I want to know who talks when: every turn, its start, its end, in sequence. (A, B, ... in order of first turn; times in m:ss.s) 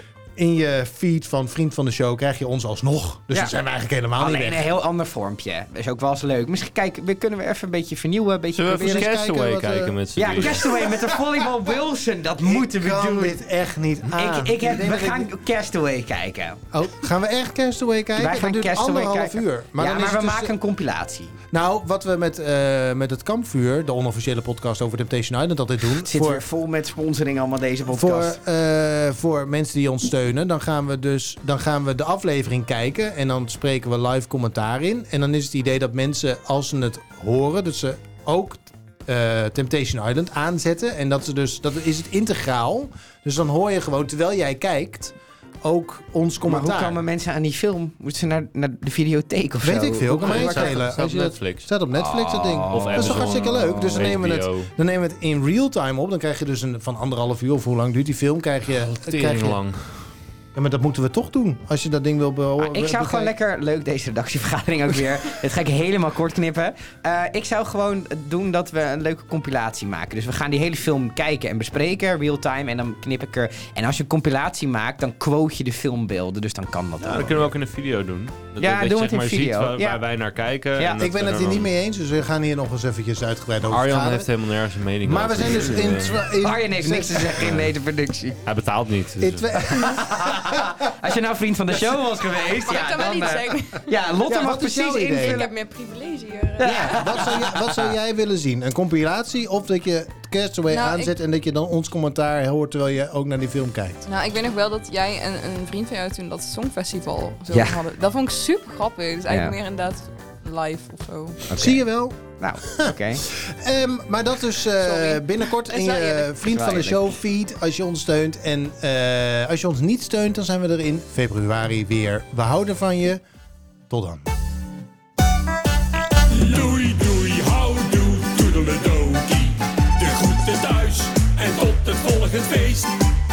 0:00.4-0:04.7 A
0:04.2-0:09.1 B
0:08.5-0:10.8 C
0:08.8-0:11.6 A
0:10.2-0:13.4 B
0:12.4-0:15.3 A
0:14.1-0:16.6 B
0:16.7-0:20.5 A
0:18.2-0:21.3 B
0:21.5-0:26.4 A
0:26.0-0:28.4 B
0:27.9-0:47.0 A
0:46.4-0:50.8 B
0:49.6-0:59.6 A
0:50.2-0:51.7 C
0:51.9-0:54.0 B
0:52.7-0:54.7 C
0:58.9-1:00.1 C
1:00.6-1:03.3 A
1:02.6-1:17.5 B
1:17.1-1:21.7 C
1:18.6-1:20.0 B
1:21.0-1:24.3 A
1:23.7-1:26.2 C
1:25.0-1:27.6 A
1:26.4-1:28.4 B
1:28.4-1:30.0 C
1:29.2-1:30.8 A
1:29.8-1:35.5 B
1:32.5-1:33.9 D
1:34.3-1:35.5 A
1:35.2-1:37.2 D
1:36.6-1:38.0 B
1:36.6-1:44.0 A
1:40.7-1:41.1 D
1:44.0-1:51.5 D
1:47.5-1:47.8 B
1:49.3-1:49.6 B
1:51.5-1:53.2 B
1:51.6-2:03.2 A
1:54.8-1:56.4 D
1:56.4-1:57.2 B
2:03.9-2:04.3 A
2:06.3-2:13.0 E